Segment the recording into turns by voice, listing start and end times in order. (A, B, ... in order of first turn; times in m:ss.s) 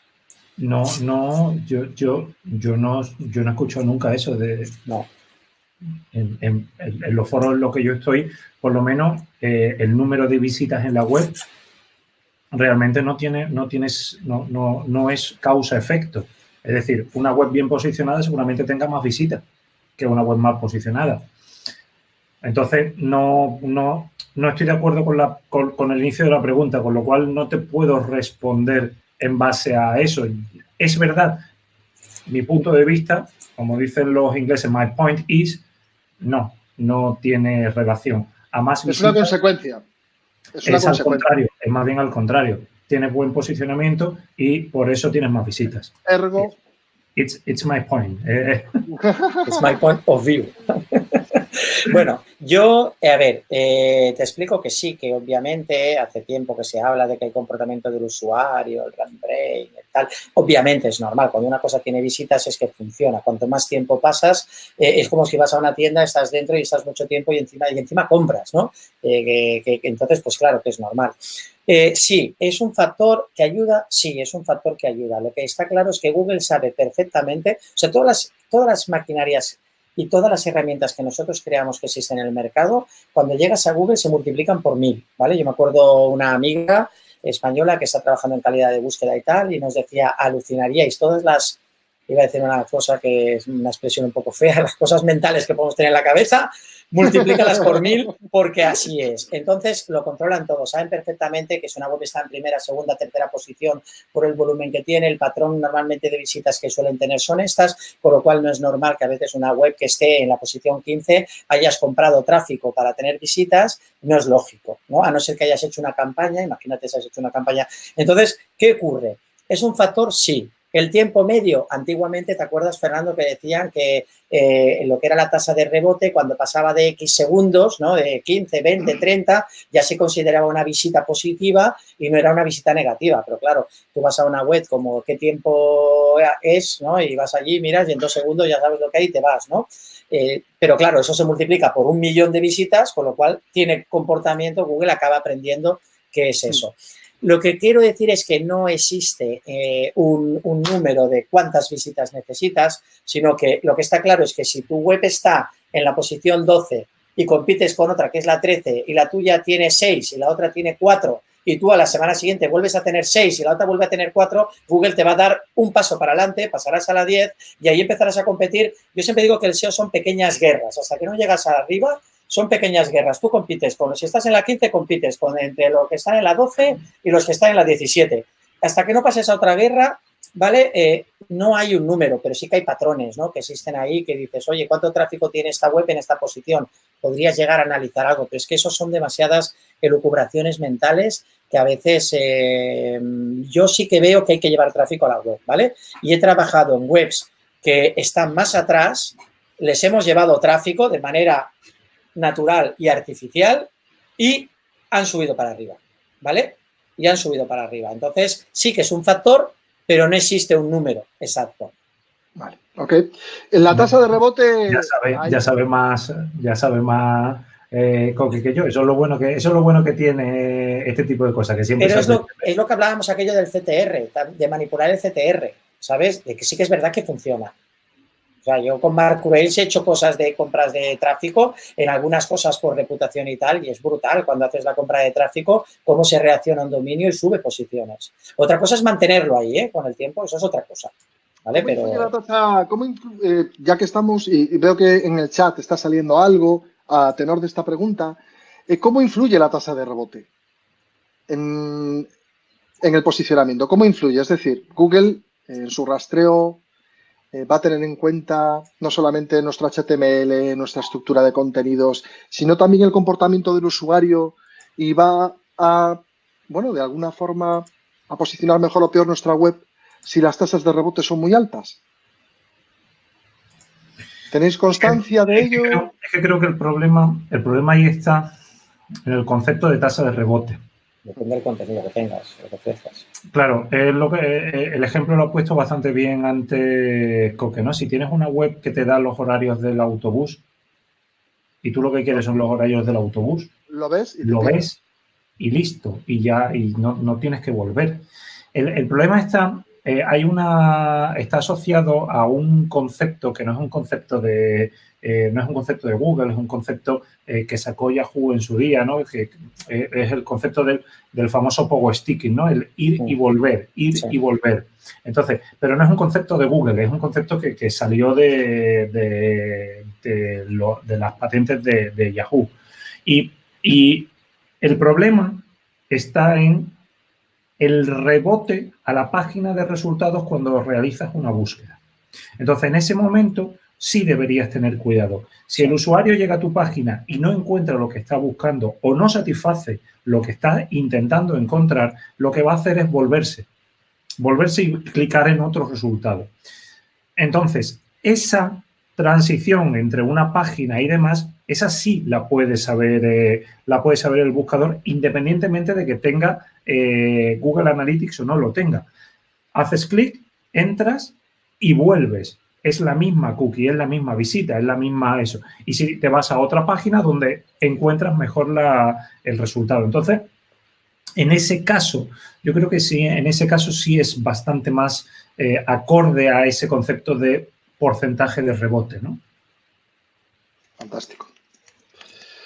0:00.6-0:04.8 A
0:06.1-0:11.4 A
0:12.5-0:19.4 A
0:20.0-0:21.3 A
0:22.4-0:31.4 A
0:32.3-0:35.6 A
0:36.2-0:39.3 A
0:38.8-0:39.8 B
0:40.5-0:41.3 B
0:40.6-0:46.5 A
0:46.0-0:46.6 B
0:47.1-0:48.8 A
0:48.9-0:49.6 B
0:49.4-1:11.1 C
1:11.7-1:31.6 C
1:32.1-3:21.5 C
1:37.0-1:37.8 B
3:22.1-3:31.7 C
3:32.4-3:35.4 B
3:34.7-3:42.5 A
3:41.8-3:47.5 C
3:48.4-4:00.9 C
4:01.4-4:02.1 C
4:01.6-4:10.3 B
4:11.3-4:12.1 B
4:12.8-4:16.6 B
4:17.3-4:31.8 B
4:34.3-4:35.8 B
4:34.8-4:38.3 A
4:39.0-4:40.6 A
4:41.0-4:43.0 C
4:43.3-4:50.4 A
4:51.6-4:53.5 A
4:53.7-4:54.6 B
4:54.2-4:54.8 A
4:55.4-5:22.5 A
5:23.0-5:26.8 A
5:27.6-5:31.8 A
5:32.4-5:43.5 A
5:44.2-5:46.3 A
5:47.2-5:58.9 A
5:59.5-6:10.3 A
6:11.2-6:19.2 A
6:20.8-6:21.3 B